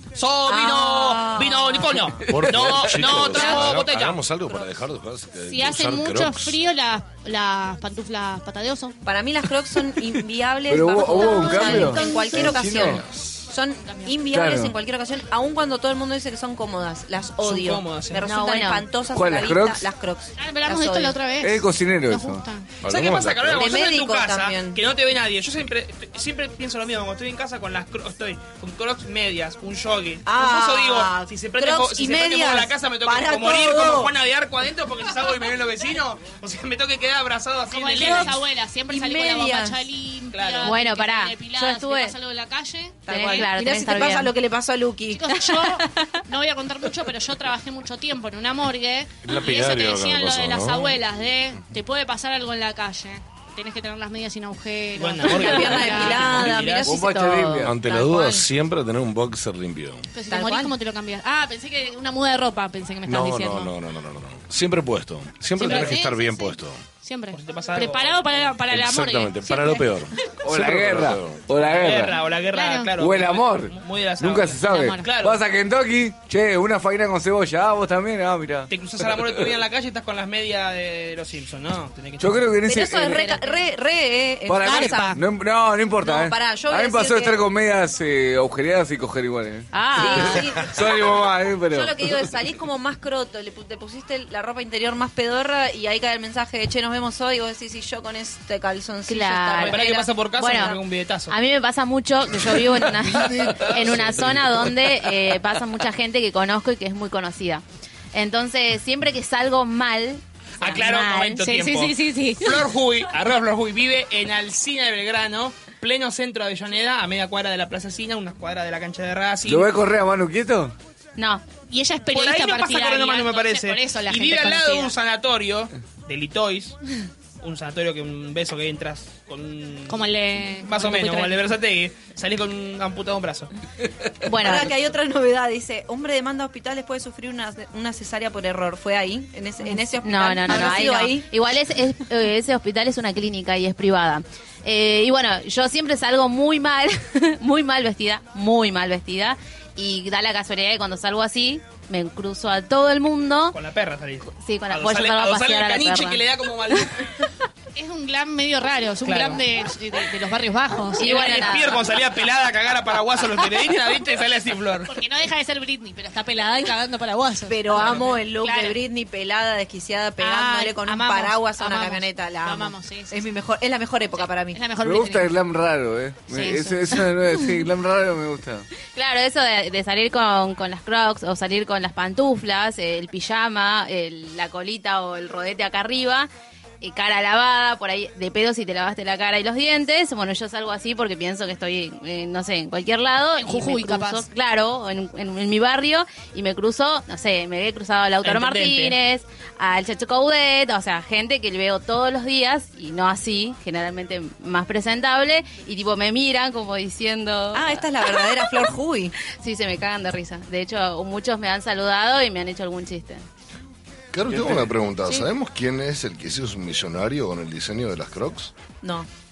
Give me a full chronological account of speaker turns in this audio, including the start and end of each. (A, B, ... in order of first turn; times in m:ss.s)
0:00.1-0:04.2 A
0:00.4-0:02.2 B
0:02.2-0:06.6 C
0:03.1-0:03.9 B
0:04.4-0:04.7 B
0:05.5-0:09.0 D
0:09.0-0:21.2 B
0:10.7-0:13.0 E
0:11.1-0:12.4 D
0:11.2-0:12.1 F
0:12.3-0:13.5 C
0:13.8-0:14.1 D
0:14.3-0:14.7 E
0:17.4-0:18.3 A
0:18.2-0:18.8 F
0:19.1-0:19.8 E
0:20.4-0:22.7 D
0:21.4-0:22.4 E
0:22.8-0:23.8 C
0:22.8-0:38.3 A
0:23.5-0:24.8 B
0:30.2-0:34.1 B
0:37.7-0:43.5 D
0:38.0-0:39.8 B
0:40.3-0:40.8 A
0:40.6-0:42.1 F
0:43.1-0:45.3 B
0:43.1-0:44.3 F
0:45.1-0:56.4 D
0:49.2-0:51.0 C
0:55.0-0:56.9 A
0:55.3-0:58.5 B
0:56.8-0:57.7 E
0:57.6-1:00.1 C
1:00.1-1:03.7 D
1:00.3-1:00.7 B
1:03.0-1:06.8 C
1:05.6-1:09.9 D
1:07.3-1:08.4 A
1:08.7-1:11.4 C
1:10.4-1:12.2 E
1:11.6-1:15.4 A
1:12.5-1:12.9 D
1:13.0-1:19.4 E
1:14.6-1:15.1 D
1:18.7-1:22.5 A
1:22.2-1:23.4 E
1:22.6-1:25.2 B
1:24.4-1:32.3 E
1:24.6-1:25.2 D
1:26.0-1:27.4 B
1:29.7-1:30.4 F
1:29.9-1:40.8 B
1:39.1-1:40.8 F
1:39.6-1:41.3 A
1:41.3-1:51.5 F
1:42.7-1:45.2 E
1:50.6-1:59.7 A
1:51.4-1:52.6 D
1:59.4-2:00.7 E
2:01.2-2:01.4 F
2:01.7-2:04.9 D
2:02.1-2:06.8 A
2:07.4-2:10.1 A
2:09.9-2:11.4 D
2:10.6-2:13.5 A
2:14.2-2:14.7 F
2:14.3-2:21.3 B
2:19.7-2:33.6 F
2:33.5-2:37.1 A
2:34.3-2:36.2 F
2:37.7-2:41.6 D
2:39.0-2:39.4 A
2:41.0-2:41.9 F
2:41.0-2:44.9 A
2:44.9-2:48.8 D
2:47.5-2:54.6 B
2:47.7-2:48.1 A
2:50.2-2:53.2 D
2:54.5-2:55.3 D
2:54.8-2:58.7 E
2:56.3-2:57.1 D
2:58.9-3:06.3 F
3:06.8-3:28.7 F
3:13.4-3:14.2 D
3:18.2-3:19.0 A
3:27.5-3:29.1 B
3:29.2-3:33.2 F
3:34.1-3:38.5 C
3:34.3-3:34.7 E
3:38.8-3:39.1 B